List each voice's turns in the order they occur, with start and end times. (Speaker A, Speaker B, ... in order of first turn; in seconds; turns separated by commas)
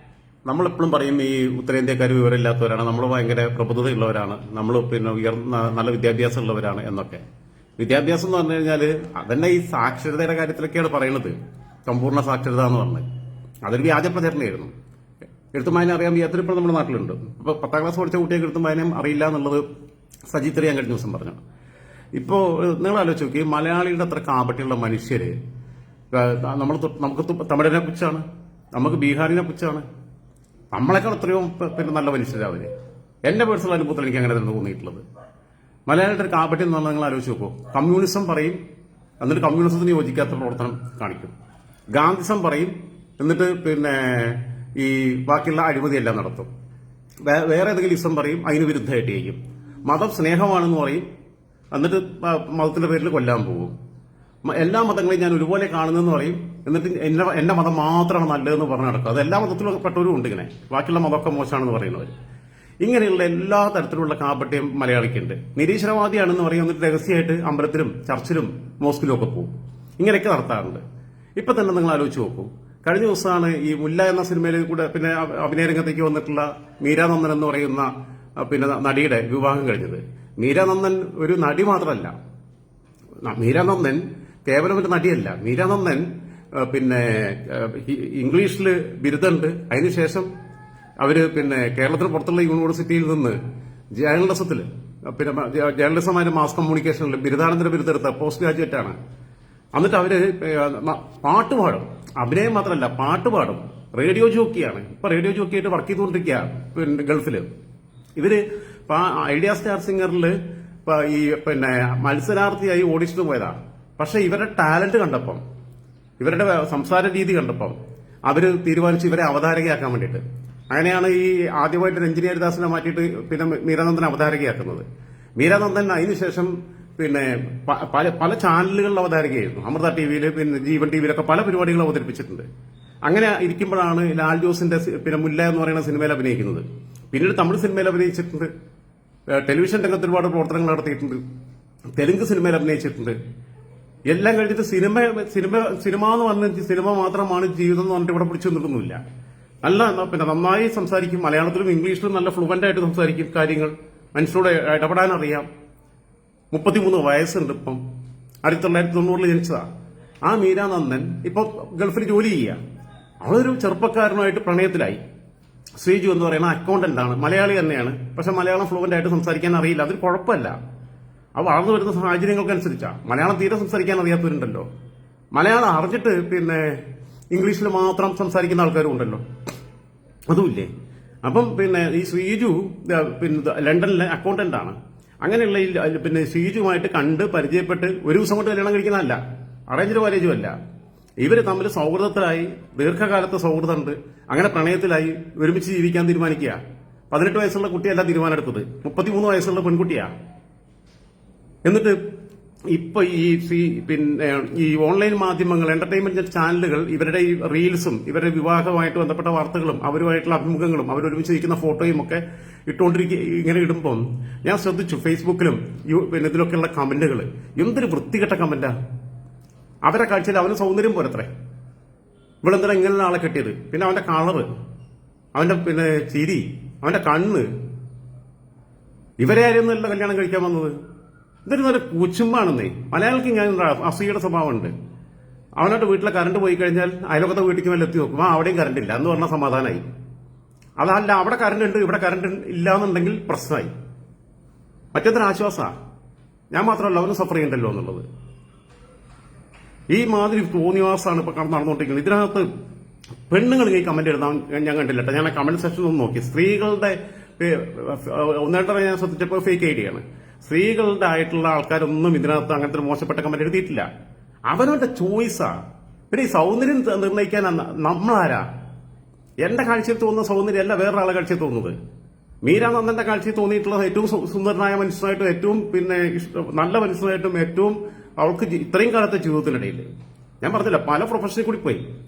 Speaker A: 0.5-7.2, Speaker A: 7.8-13.1, Speaker A: 13.6-14.7, Speaker A: 15.5-19.6, Speaker A: 20.3-21.4, Speaker A: 22.1-25.3, Speaker A: 26.1-29.8, Speaker A: 30.7-32.7, Speaker A: 33.3-35.0, Speaker A: 35.9-38.6, Speaker A: 39.2-41.3, Speaker A: 41.9-46.5, Speaker A: 47.2-51.1, Speaker A: 51.7-53.7, Speaker A: 54.5-62.1, Speaker A: 62.8-70.8, Speaker A: 71.4-82.1, Speaker A: 83.2-90.3, Speaker A: 91.0-93.4, Speaker A: 94.0-99.0, Speaker A: 99.8-107.5, Speaker A: 108.2-115.4, Speaker A: 116.2-124.8, Speaker A: 125.4-132.4, Speaker A: 133.1-138.5, Speaker A: 139.3-141.2, Speaker A: 142.0-143.2, Speaker A: 144.1-149.0, Speaker A: 149.6-155.5, Speaker A: 156.5-157.8, Speaker A: 158.4-159.7, Speaker A: 160.2-162.6, Speaker A: 163.2-165.0, Speaker A: 165.8-170.6, Speaker A: 171.4-174.7, Speaker A: 175.3-176.8, Speaker A: 177.3-179.2, Speaker A: 180.3-180.7, Speaker A: 181.2-189.2, Speaker A: 189.7-190.5, Speaker A: 191.2-196.6, Speaker A: 197.1-200.1, Speaker A: 201.7-202.0, Speaker A: 202.7-218.7, Speaker A: 219.8-221.3, Speaker A: 222.4-224.5, Speaker A: 225.3-227.5, Speaker A: 229.2-230.8, Speaker A: 231.4-234.7, Speaker A: 235.6-239.9, Speaker A: 240.8-243.7, Speaker A: 244.9-245.7, Speaker A: 246.5-248.0, Speaker A: 249.9-252.5, Speaker A: 253.3-263.9, Speaker A: 264.5-265.5, Speaker A: 266.1-268.5, Speaker A: 269.4-271.8, Speaker A: 272.4-279.9, Speaker A: 280.4-281.9